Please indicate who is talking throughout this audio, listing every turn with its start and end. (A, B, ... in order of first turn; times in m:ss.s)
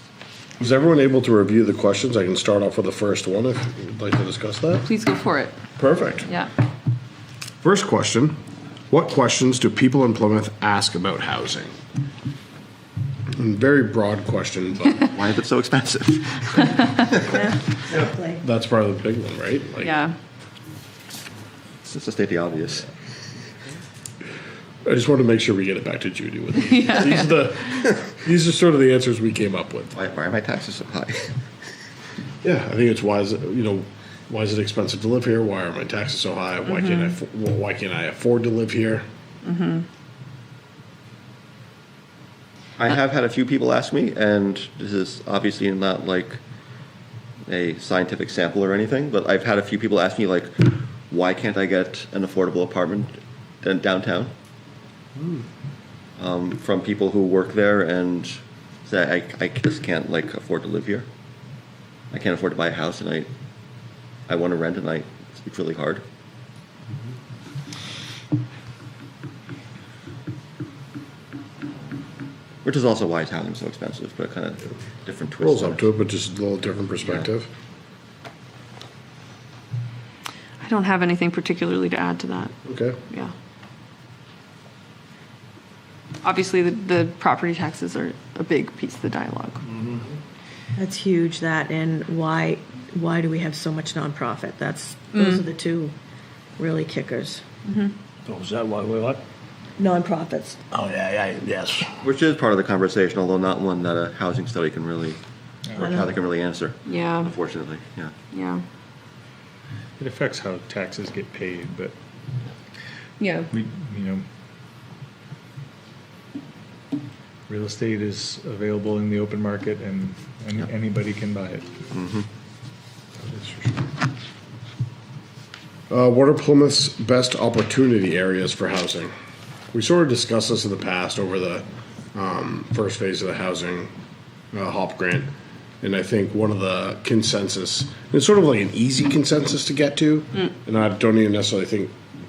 0:00.6-0:04.9 A
0:04.8-0:05.6 B
0:05.8-0:06.3 A
0:07.6-0:08.4 A
0:08.9-0:11.7 A
0:13.3-0:15.0 A
0:15.1-0:17.3 C
0:17.3-0:18.4 D
0:17.9-0:20.0 A
0:19.8-0:20.1 B
0:21.8-0:22.9 C
0:24.8-0:29.9 A
0:26.6-0:27.4 B
0:29.9-0:31.4 C
0:32.4-0:39.0 A
0:36.7-0:37.1 B
0:39.4-0:39.8 B
0:42.8-0:46.4 C
0:47.5-0:54.3 C
0:56.2-1:01.1 C
1:02.1-1:03.3 C
1:04.3-1:06.0 C
1:12.6-1:15.9 C
1:15.4-1:17.5 A
1:20.6-1:22.5 B
1:22.6-1:23.0 A
1:26.2-1:29.6 B
1:30.8-1:35.9 D
1:35.1-1:35.4 B
1:36.6-1:37.4 D
1:37.7-1:37.9 B
1:38.2-1:39.2 E
1:39.8-1:40.6 D
1:40.7-1:42.0 E
1:42.0-1:45.2 C
1:45.7-1:46.0 F
1:45.7-1:48.1 C
1:46.8-1:47.3 B
1:48.3-1:48.6 B
1:50.0-1:51.9 F
1:53.2-1:53.5 B
1:53.5-1:54.2 F
1:57.5-2:01.7 F
2:01.9-2:02.2 C
2:03.2-2:03.8 A
2:05.9-2:09.1 A
2:09.7-2:13.9 A
2:14.5-2:15.3 A
2:15.8-2:21.9 A